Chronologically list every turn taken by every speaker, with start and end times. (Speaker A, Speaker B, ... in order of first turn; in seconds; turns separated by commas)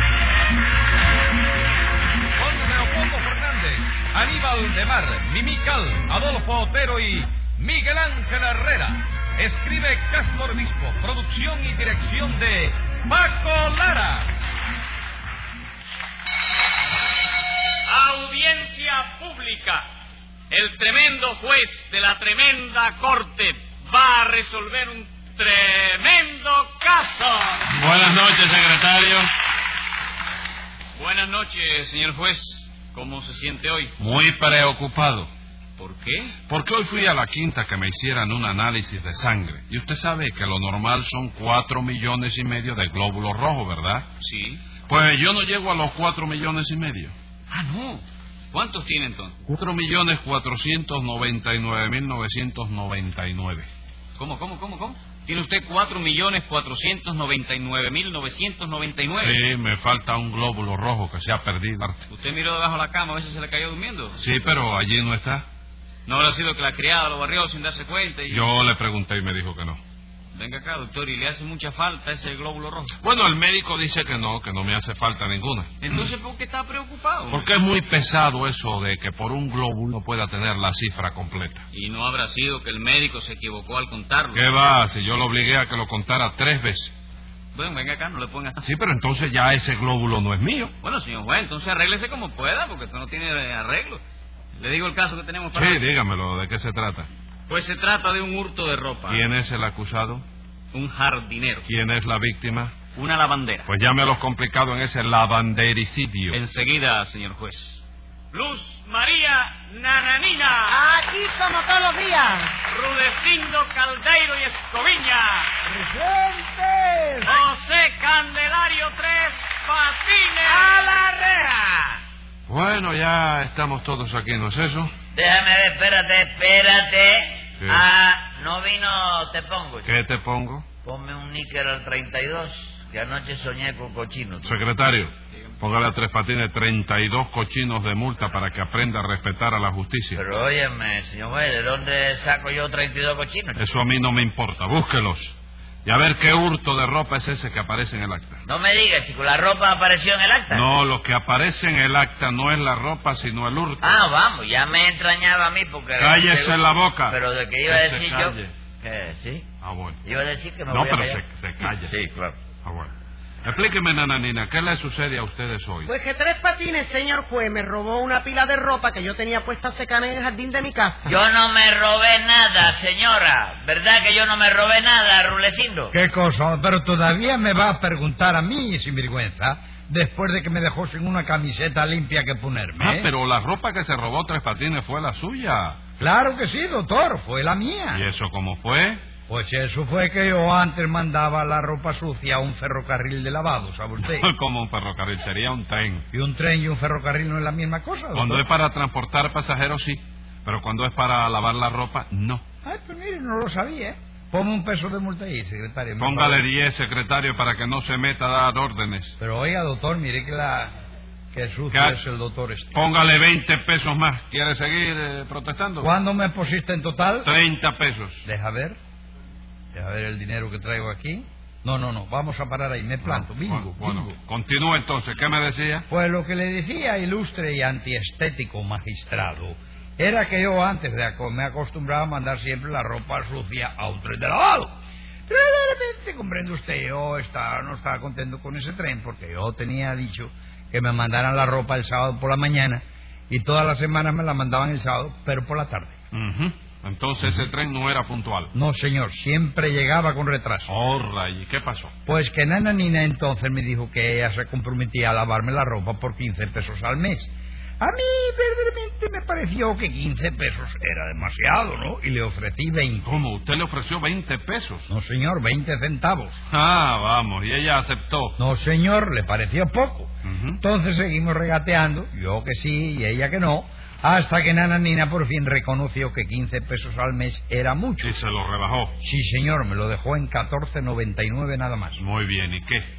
Speaker A: 2.4-14.3, Speaker B: 6.5-6.9, Speaker B: 7.5-7.8, Speaker C: 17.9-19.9, Speaker C: 20.5-27.7, Speaker B: 27.7-29.3, Speaker C: 31.0-33.9, Speaker B: 34.0-35.3, Speaker C: 35.8-36.3, Speaker B: 36.5-44.1, Speaker C: 44.2-44.6, Speaker B: 44.9-47.1, Speaker C: 47.5-49.4, Speaker B: 49.5-53.7, Speaker C: 54.2-59.4, Speaker B: 59.1-62.0, Speaker C: 62.1-64.2, Speaker B: 64.2-65.4, Speaker C: 66.0-68.5, Speaker B: 68.3-69.8, Speaker C: 70.3-72.9, Speaker B: 73.0-76.1, Speaker C: 75.8-77.5, Speaker B: 77.3-81.6, Speaker C: 81.7-84.4, Speaker B: 84.3-86.9, Speaker C: 87.5-88.6, Speaker B: 88.6-90.7, Speaker C: 90.8-94.0, Speaker C: 94.6-95.8, Speaker B: 95.5-97.1, Speaker C: 97.5-99.2, Speaker B: 99.0-100.2, Speaker C: 100.7-101.7, Speaker B: 101.6-102.7, Speaker C: 102.9-103.7, Speaker B: 103.7-106.4, Speaker C: 106.3-110.8, Speaker D: 110.7-112.6, Speaker C: 112.7-115.5, Speaker E: 115.7-117.4, Speaker C: 117.2-120.8, Speaker D: 120.5-121.1, Speaker F: 121.0-121.8, Speaker B: 122.5-124.9, Speaker F: 125.1-129.9, Speaker B: 127.6-127.8, Speaker B: 129.8-130.6, Speaker F: 130.8-134.5, Speaker B: 134.4-140.2, Speaker F: 140.2-143.6, Speaker B: 143.6-148.4, Speaker F: 148.4-150.6, Speaker B: 150.5-154.0, Speaker F: 153.8-159.4, Speaker B: 156.0-158.5, Speaker B: 159.6-160.0, Speaker F: 160.0-161.2, Speaker B: 160.7-161.9, Speaker F: 161.8-162.3, Speaker B: 162.6-162.9, Speaker B: 163.4-165.9, Speaker D: 165.8-171.2, Speaker F: 171.1-175.9, Speaker E: 175.9-183.1, Speaker B: 182.8-185.8, Speaker E: 186.0-188.0, Speaker B: 187.9-189.0, Speaker E: 189.3-194.3, Speaker B: 194.0-196.0, Speaker E: 196.1-198.4, Speaker B: 198.1-202.4, Speaker E: 202.6-206.4, Speaker B: 206.0-209.1, Speaker E: 209.2-210.7, Speaker E: 211.3-212.7, Speaker B: 211.7-212.0, Speaker B: 212.7-215.9, Speaker E: 215.8-217.3, Speaker B: 217.2-218.2, Speaker E: 218.2-218.8, Speaker E: 219.7-224.2, Speaker B: 223.0-225.8, Speaker E: 225.9-234.7, Speaker E: 235.3-245.9, Speaker B: 246.1-248.5, Speaker E: 247.2-247.5, Speaker E: 248.5-250.7, Speaker B: 250.7-251.9, Speaker E: 252.1-263.1, Speaker B: 263.0-264.9, Speaker E: 264.9-266.4, Speaker B: 266.5-268.4, Speaker E: 268.4-278.2, Speaker B: 270.2-270.6, Speaker B: 278.0-278.9, Speaker E: 279.0-282.0, Speaker B: 282.0-282.9